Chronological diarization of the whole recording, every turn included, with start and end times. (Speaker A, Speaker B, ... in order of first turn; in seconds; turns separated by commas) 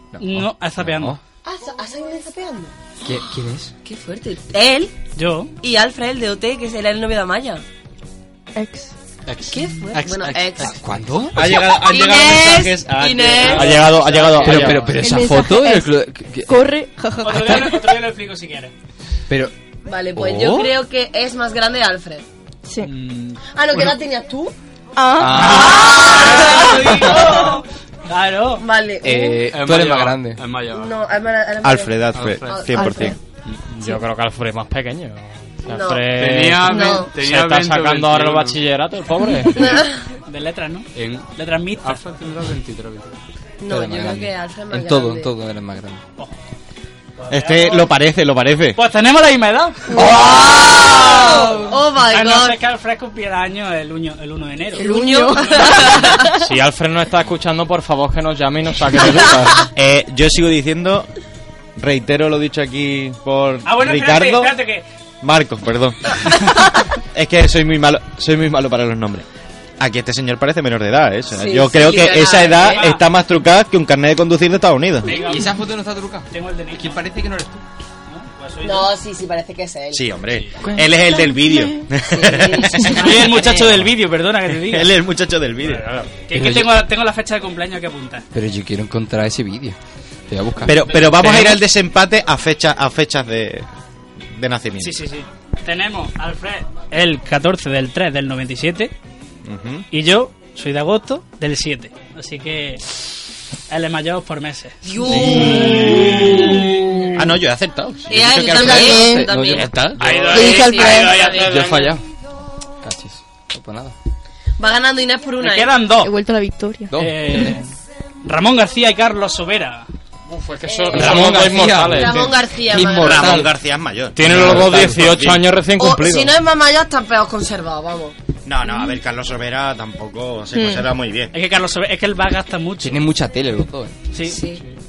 Speaker A: 0.1-1.2, Speaker B: 0.2-1.2, Speaker C: 1.4-2.7, Speaker A: 3.0-3.7, Speaker C: 3.8-5.0, Speaker B: 5.2-5.5, Speaker C: 5.6-7.6, Speaker D: 8.6-8.9, Speaker E: 9.3-10.8, Speaker C: 9.5-10.8, Speaker A: 10.6-11.7, Speaker F: 11.3-14.9, Speaker C: 11.5-14.0, Speaker G: 13.4-14.9, Speaker A: 14.4-16.7, Speaker E: 14.4-14.7, Speaker D: 14.9-18.0, Speaker B: 17.2-18.7, Speaker A: 17.3-17.7, Speaker A: 19.3-19.5, Speaker C: 19.9-22.3, Speaker A: 20.1-20.8, Speaker D: 22.6-22.9, Speaker E: 22.8-23.4, Speaker C: 23.5-24.6, Speaker D: 25.0-26.0, Speaker A: 25.2-26.3, Speaker C: 25.5-27.6, Speaker B: 25.8-28.6, Speaker C: 28.6-29.4, Speaker A: 29.0-30.4, Speaker E: 29.5-31.0, Speaker C: 30.7-33.1, Speaker F: 31.6-33.2, Speaker E: 32.1-32.7, Speaker D: 32.7-33.2, Speaker G: 33.8-39.8, Speaker C: 35.7-36.1, Speaker E: 36.1-38.6, Speaker C: 36.6-37.1, Speaker C: 39.5-40.1, Speaker B: 40.3-42.0, Speaker E: 40.9-41.3, Speaker E: 41.8-43.2, Speaker C: 43.6-45.3, Speaker A: 43.7-46.0, Speaker B: 47.2-48.0, Speaker F: 47.3-48.8, Speaker B: 48.8-50.1, Speaker C: 50.0-52.6, Speaker D: 50.0-50.5, Speaker B: 50.8-54.9, Speaker D: 54.8-56.3, Speaker C: 54.8-56.3, Speaker G: 56.4-59.6, Speaker F: 59.7-61.1, Speaker F: 61.8-64.5, Speaker B: 63.6-64.8, Speaker F: 65.2-66.5, Speaker F: 67.1-69.2, Speaker F: 69.8-75.2, Speaker C: 71.3-72.9, Speaker B: 72.6-73.0, Speaker B: 75.0-75.5, Speaker A: 75.0-77.7, Speaker B: 76.3-77.0, Speaker B: 78.1-78.9, Speaker C: 78.6-80.1, Speaker F: 79.9-83.9, Speaker C: 82.1-83.4, Speaker B: 82.9-84.9, Speaker F: 84.6-85.9, Speaker G: 85.7-86.1, Speaker B: 86.2-88.3, Speaker A: 86.3-86.8, Speaker A: 88.3-89.8, Speaker A: 90.3-91.5, Speaker F: 90.7-93.7, Speaker F: 94.3-95.0, Speaker B: 94.8-98.9, Speaker F: 99.5-99.8, Speaker B: 99.9-102.8, Speaker B: 103.7-104.8, Speaker C: 104.8-106.8, Speaker F: 105.1-106.6, Speaker A: 105.2-105.5, Speaker F: 107.2-109.0, Speaker C: 108.1-111.6, Speaker D: 108.5-109.3, Speaker A: 108.5-110.3, Speaker G: 110.0-112.0, Speaker D: 110.2-111.3, Speaker A: 111.3-112.0, Speaker A: 112.8-114.0, Speaker C: 114.6-115.7, Speaker B: 115.4-116.1, Speaker D: 116.0-117.5, Speaker A: 116.9-117.3, Speaker B: 117.0-117.7, Speaker B: 118.2-119.9, Speaker G: 120.3-122.3, Speaker C: 120.7-123.5, Speaker A: 120.9-123.5, Speaker F: 122.8-125.4, Speaker G: 124.2-126.3, Speaker A: 124.2-125.0, Speaker C: 125.8-128.2, Speaker F: 128.4-131.3, Speaker D: 128.7-128.9, Speaker D: 130.5-130.9, Speaker B: 131.3-133.0, Speaker A: 132.8-133.9, Speaker B: 134.1-134.4, Speaker C: 134.2-134.6